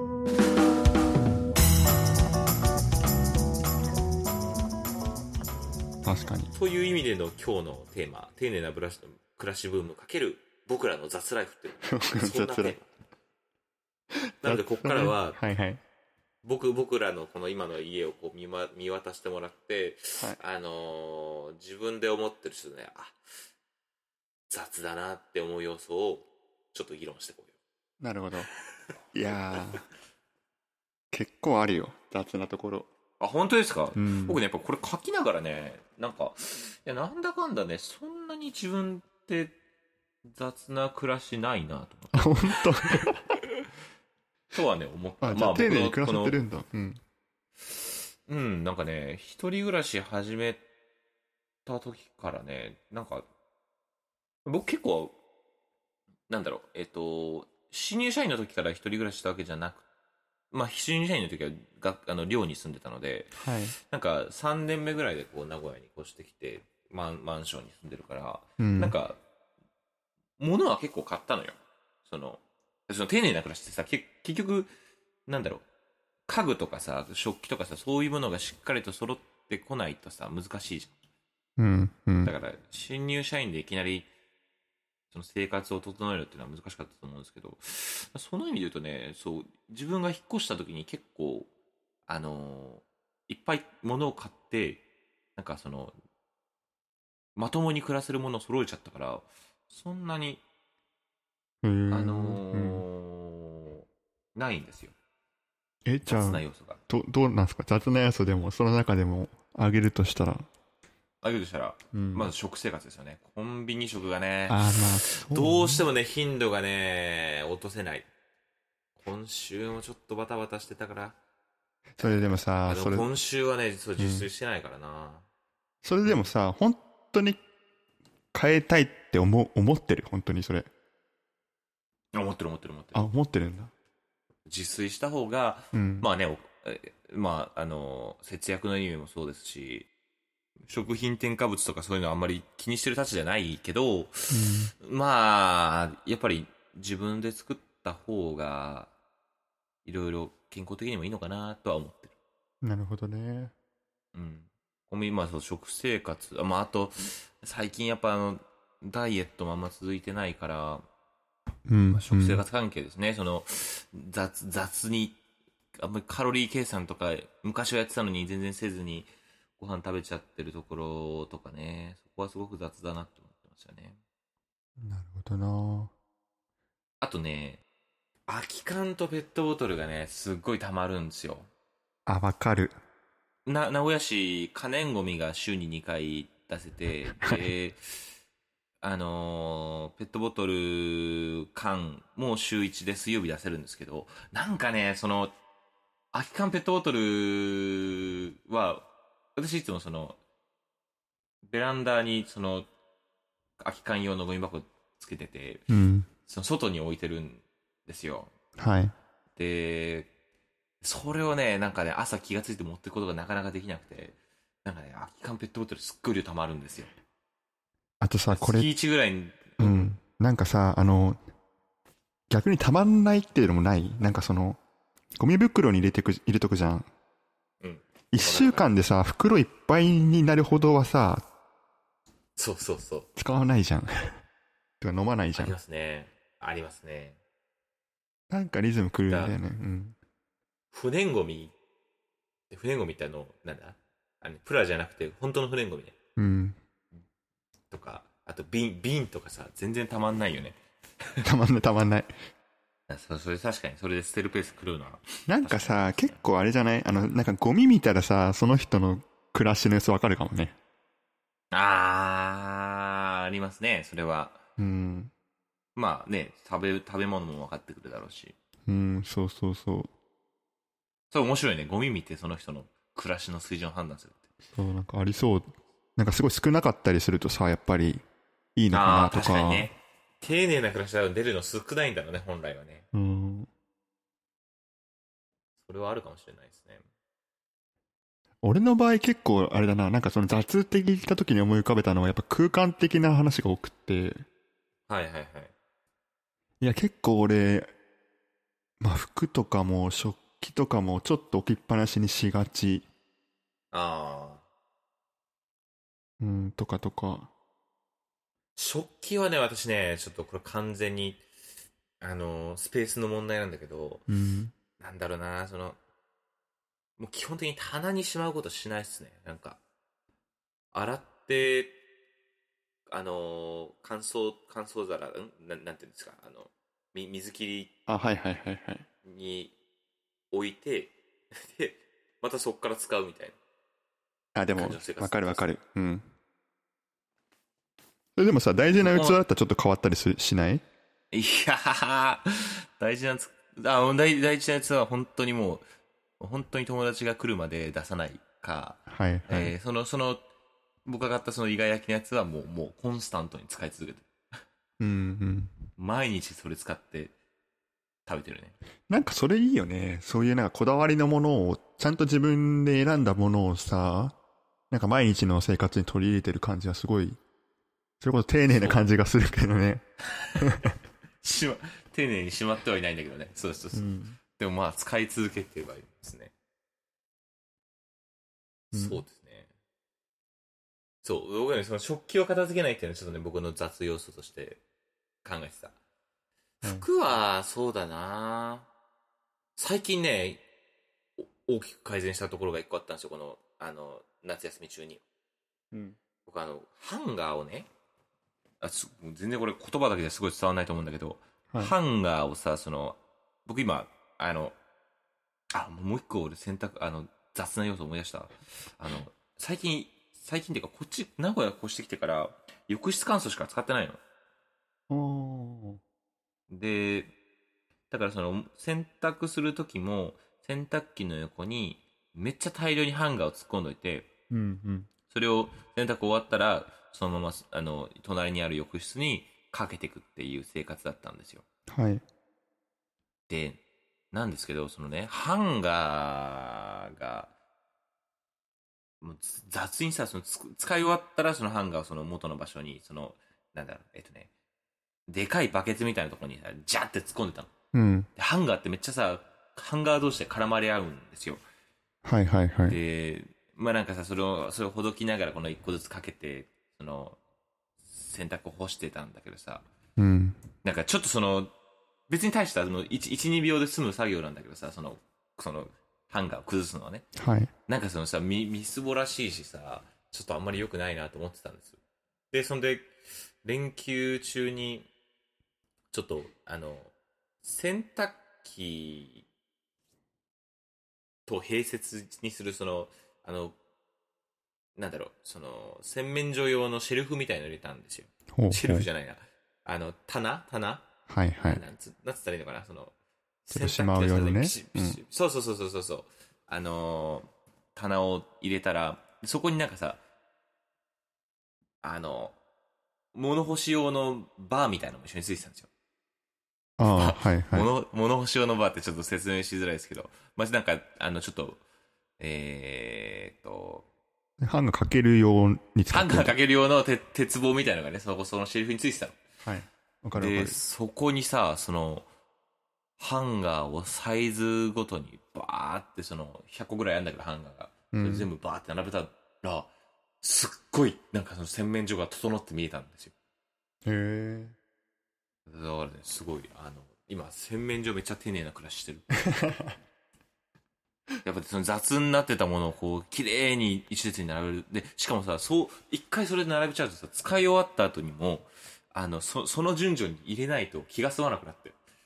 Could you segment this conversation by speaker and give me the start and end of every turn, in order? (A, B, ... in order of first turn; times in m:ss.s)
0:06.0-0:06.5 A
0:06.5-0:12.9 B
0:11.8-0:12.8 A
0:14.1-0:15.8 A
0:14.4-0:15.4 B
0:16.4-0:23.2 B
0:24.5-0:27.5 B
0:28.0-0:28.5 A
0:29.1-0:29.9 A
0:31.1-0:32.9 A
0:33.2-0:39.6 B
0:33.9-0:34.4 A
0:40.3-0:43.1 B
0:42.1-0:43.2 A
0:44.5-0:46.4 B
0:45.2-0:47.0 A
0:47.7-0:50.6 B
0:51.7-0:53.3 B
0:54.4-0:55.2 B
0:56.3-0:59.8 B
1:00.5-1:09.2 B
1:03.4-1:03.8 A
1:08.6-1:09.0 A
1:10.4-1:14.7 B
1:15.3-1:15.6 B
1:16.3-1:21.0 B
1:21.6-1:22.3 A
1:22.2-1:24.1 B
1:25.1-1:31.5 B
1:32.1-1:34.8 B
1:35.4-1:36.0 B
1:37.4-1:40.4 B
1:41.6-1:42.8 A
1:41.9-1:44.9 B
1:45.8-1:50.5 A
1:46.0-1:46.8 B
1:51.2-1:58.1 B
1:51.9-1:52.3 A
1:54.5-1:55.8 A
1:59.0-2:01.2 B
2:02.0-2:03.1 A
2:02.0-2:05.2 B
2:04.0-2:04.3 A
2:05.8-2:07.4 A
2:06.0-2:06.3 B
2:08.3-2:10.7 A
2:12.1-2:13.1 B
2:12.9-2:13.7 A
2:14.4-2:19.9 B
2:15.7-2:16.1 A
2:20.7-2:28.9 B
2:24.3-2:24.7 A
2:29.8-2:32.1 B
2:32.6-2:33.5 A
2:34.1-2:40.8 B
2:41.7-2:42.4 A
2:41.9-2:45.2 B
2:45.8-2:54.0 B
2:54.8-2:55.9 A
2:57.0-2:57.6 B
2:58.3-3:01.5 B
3:02.1-3:02.8 A
3:03.4-3:07.8 B
3:07.1-3:07.4 A
3:08.8-3:15.4 B
3:16.1-3:20.2 B
3:21.4-3:22.7 B
3:23.6-3:25.6 B
3:25.7-3:26.1 A
3:26.2-3:28.3 B
3:28.6-3:28.9 A
3:29.4-3:30.1 B
3:30.8-3:36.9 B
3:38.0-3:38.7 A
3:38.3-3:39.9 B
3:39.6-3:41.2 A
3:42.3-3:44.6 A
3:45.2-3:46.9 A
3:47.6-3:48.7 B
3:48.1-3:51.2 A
3:52.4-3:53.1 B
3:53.2-3:54.1 A
3:54.8-3:55.6 A
3:55.3-3:57.2 B
3:58.3-4:00.0 A
3:59.1-3:59.4 B
4:00.7-4:01.6 B
4:02.5-4:05.9 B
4:06.2-4:06.6 A
4:07.7-4:10.6 B
4:11.2-4:12.1 A
4:12.9-4:16.2 B
4:15.3-4:20.6 A
4:21.5-4:24.4 B
4:24.6-4:25.1 A
4:25.8-4:28.3 B
4:28.7-4:29.9 A
4:31.1-4:34.2 B
4:34.5-4:38.0 A
4:38.6-4:39.7 A
4:38.7-4:42.8 B
4:42.9-4:43.5 A
4:45.6-4:46.8 B
4:48.4-4:54.2 A
4:54.9-4:55.5 B
4:56.6-4:57.7 A
4:58.8-5:02.9 A
5:03.7-5:04.4 B
5:06.2-5:07.3 A
5:08.5-5:11.2 B
5:12.0-5:14.0 B
5:14.1-5:14.5 A
5:14.8-5:15.8 B
5:17.0-5:19.6 B
5:20.7-5:21.8 B
5:22.9-5:27.7 B
5:27.9-5:28.8 A
5:29.0-5:29.5 B
5:30.3-5:33.4 B
5:34.3-5:36.1 A
5:34.5-5:35.4 B
5:38.2-5:40.6 A
5:38.8-5:39.2 B
5:41.1-5:45.6 B
5:46.2-5:50.2 B
5:48.9-5:49.5 A
5:50.8-5:54.1 B
5:54.8-5:55.5 A
5:55.8-5:57.1 B
5:58.1-5:58.6 B
5:58.9-6:04.2 A
6:04.7-6:07.2 A
6:08.0-6:09.8 A
6:08.5-6:08.8 B
6:10.2-6:16.3 B
6:10.4-6:10.7 A
6:13.7-6:14.2 A
6:18.7-6:19.5 B
6:18.7-6:19.0 A
6:21.0-6:24.6 B
6:25.2-6:25.7 B
6:26.6-6:28.7 B
6:29.6-6:30.4 B
6:31.2-6:35.0 B
6:35.7-6:36.0 A
6:36.2-6:37.7 B
6:38.6-6:44.6 B
6:45.5-6:54.0 B
6:54.9-6:55.8 A
6:56.5-6:57.1 B
6:57.9-7:04.1 B
7:04.3-7:04.9 A
7:05.1-7:11.4 B
7:11.7-7:12.0 A
7:13.3-7:17.3 B
7:19.0-7:24.3 B
7:25.1-7:27.5 B
7:27.7-7:28.1 A
7:28.2-7:31.4 B
7:32.0-7:32.8 A
7:32.7-7:37.2 B
7:37.8-7:39.6 B
7:40.0-7:40.4 A
7:40.6-7:41.5 B
7:42.1-7:47.1 B
7:47.2-7:47.5 A
7:47.7-7:51.8 B
7:52.3-7:54.9 B
7:55.9-7:59.2 B
8:01.2-8:03.6 B
8:04.8-8:10.9 B
8:08.3-8:08.9 A
8:11.1-8:11.6 A
8:11.4-8:12.9 B
8:13.4-8:20.0 B
8:13.5-8:15.0 A
8:21.8-8:22.4 B
8:23.1-8:25.7 B
8:26.8-8:27.7 A
8:26.8-8:31.6 B
8:32.2-8:33.9 B
8:34.4-8:36.4 A
8:35.9-8:39.2 B
8:39.4-8:40.6 A
8:40.1-8:42.1 B
8:43.0-8:49.7 B
8:47.9-8:48.3 A
8:50.2-8:53.1 B
8:53.8-8:54.6 A
8:55.5-8:59.2 B
8:59.3-8:59.8 A
9:01.2-9:11.8 B